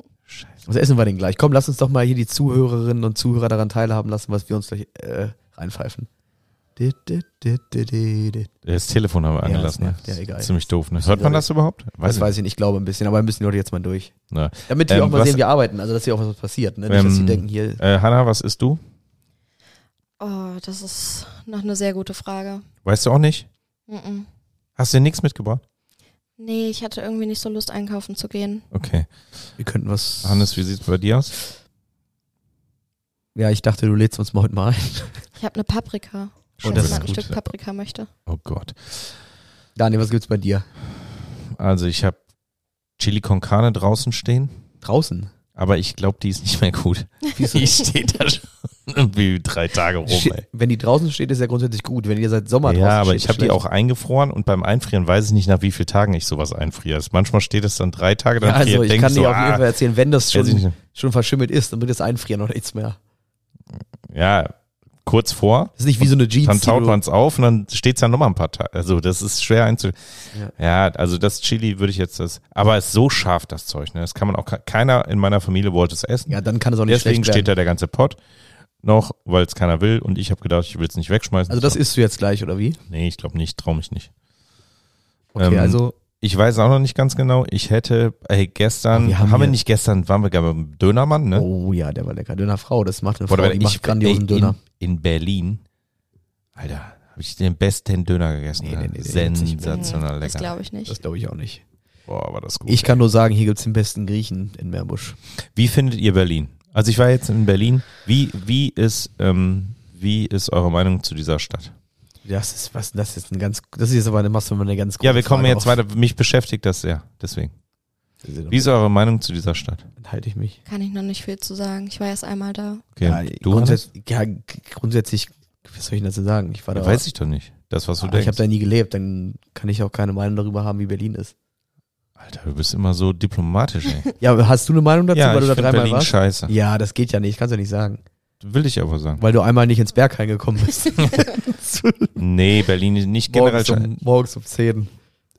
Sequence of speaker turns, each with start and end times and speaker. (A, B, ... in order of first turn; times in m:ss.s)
0:00.3-0:00.6 A
0:00.6-0:06.1 B
0:06.8-0:08.5 B
0:08.6-0:12.3 A
0:09.4-0:11.5 B
0:12.0-0:14.1 B
0:14.3-0:15.4 A
0:14.7-0:17.8 B
0:16.9-0:18.8 A
0:20.2-0:22.7 C
0:22.8-0:23.5 A
0:23.9-0:24.3 C
0:24.8-0:25.6 A
0:26.4-0:28.6 C
0:28.7-0:29.1 A
0:29.6-0:30.5 B
0:30.2-0:31.4 A
0:33.3-0:35.2 B
0:35.4-0:38.1 C
0:36.6-0:37.3 A
0:36.6-0:37.3 B
0:38.3-0:39.1 A
0:39.8-0:40.6 B
0:41.5-0:42.2 A
0:43.0-0:44.6 A
0:44.8-0:45.3 B
0:45.6-0:50.4 A
0:47.4-0:47.7 B
0:50.1-0:53.6 B
0:52.6-0:59.6 A
0:58.4-1:03.0 B
1:00.3-1:00.8 A
1:03.8-1:18.2 A
1:05.8-1:07.0 B
1:16.3-1:17.5 B
1:18.8-1:21.8 A
1:21.5-1:22.8 B
1:22.9-1:24.1 A
1:25.3-1:25.9 B
1:25.4-1:31.5 A
1:28.9-1:29.6 B
1:31.3-1:34.6 B
1:33.3-1:35.6 A
1:36.6-1:40.5 A
1:38.6-1:40.0 B
1:39.6-1:41.0 C
1:40.9-1:41.6 B
1:42.1-1:43.0 A
1:42.6-1:45.2 B
1:45.5-1:51.7 A
1:52.2-1:55.8 B
1:55.0-1:57.5 A
1:58.2-1:58.7 B
1:58.5-1:59.9 A
2:00.0-2:00.6 B
2:00.7-2:02.8 C
2:03.0-2:03.8 A
2:03.0-2:07.0 B
2:06.7-2:08.4 A
2:08.0-2:11.3 B
2:12.2-2:14.1 A
2:14.2-2:18.0 B
2:15.1-2:16.5 A
2:18.4-2:19.2 A
2:19.2-2:22.2 B
2:22.2-2:23.9 A
2:23.3-2:24.9 B